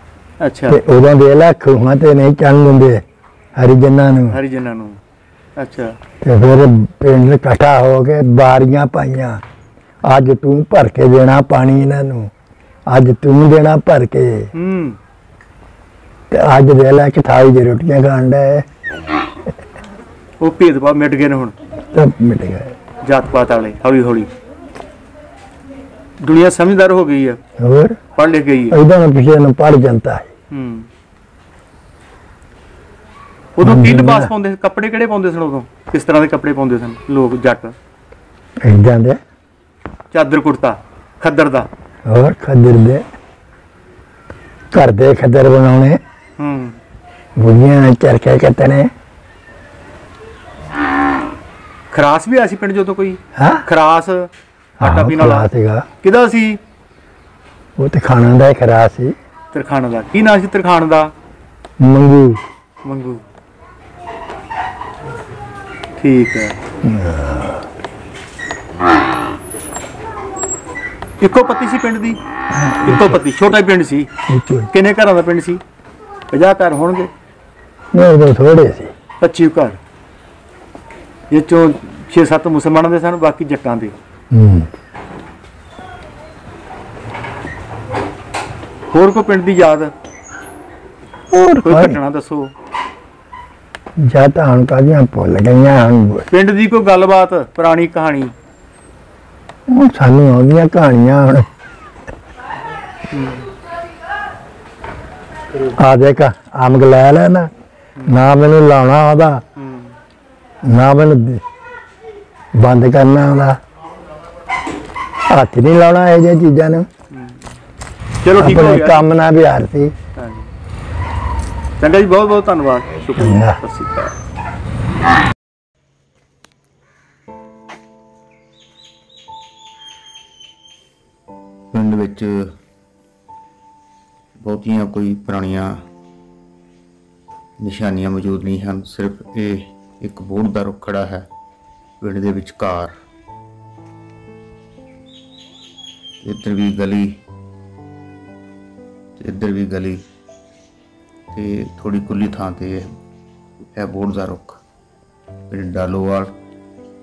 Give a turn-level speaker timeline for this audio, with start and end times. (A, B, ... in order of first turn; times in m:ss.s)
0:00.4-0:00.8 A
0:00.7-0:03.0 B
0:03.6-0:04.4 B
0:04.3-0:05.0 A
0:05.6-0:06.0 A
0:06.2-0:09.4 B
0:10.0-0:12.3 B
0:12.9-0:14.5 B
0:14.5-0:15.0 A
0:16.3-0:18.7 B
0:20.4-0:21.5 A
0:21.9-0:22.8 B
0:23.0-0:24.3 A
0:26.2-0:27.4 A
0:27.6-0:28.0 B
0:28.2-0:28.8 A
0:28.7-0:30.3 B
0:30.5-0:30.9 A
0:33.6-0:37.8 A
0:33.6-0:34.3 B
0:38.6-0:39.2 B
0:40.1-0:41.7 A
0:42.1-0:43.0 B
0:44.7-0:46.0 B
0:46.4-0:46.8 A
0:47.4-0:48.9 B
0:51.9-0:54.3 A
0:53.4-0:53.6 B
0:54.8-0:55.9 B
0:54.8-0:55.5 A
0:56.0-0:56.6 A
0:57.8-0:59.2 B
0:59.5-1:01.1 A
1:01.8-1:02.4 B
1:02.8-1:03.2 A
1:06.0-1:06.6 A
1:06.8-1:07.7 B
1:11.2-1:12.2 A
1:12.5-1:13.2 B
1:12.8-1:14.1 A
1:14.3-1:14.7 B
1:14.7-1:15.6 A
1:16.3-1:17.1 A
1:17.9-1:18.9 B
1:19.2-1:19.8 A
1:21.3-1:23.9 A
1:24.3-1:24.7 B
1:28.9-1:29.9 A
1:31.3-1:32.0 B
1:31.6-1:32.5 A
1:34.0-1:36.3 B
1:36.3-1:38.3 A
1:39.7-1:41.5 B
1:43.1-1:43.5 A
1:45.6-1:47.5 B
1:48.1-1:49.4 B
1:49.6-1:49.9 A
1:50.6-1:51.4 B
1:52.5-1:53.6 B
1:55.3-1:56.9 B
1:57.1-1:57.4 A
1:58.2-1:59.0 A
1:58.4-1:59.9 B
2:00.2-2:00.5 A
2:01.8-2:04.1 A
2:03.2-2:03.6 B
2:11.7-2:12.5 C
2:14.4-2:15.8 C
2:17.6-2:21.3 C
2:22.0-2:22.9 C
2:26.2-2:27.2 C
2:29.2-2:30.0 C
2:31.3-2:32.9 C
2:33.7-2:34.6 C
2:35.5-2:36.3 C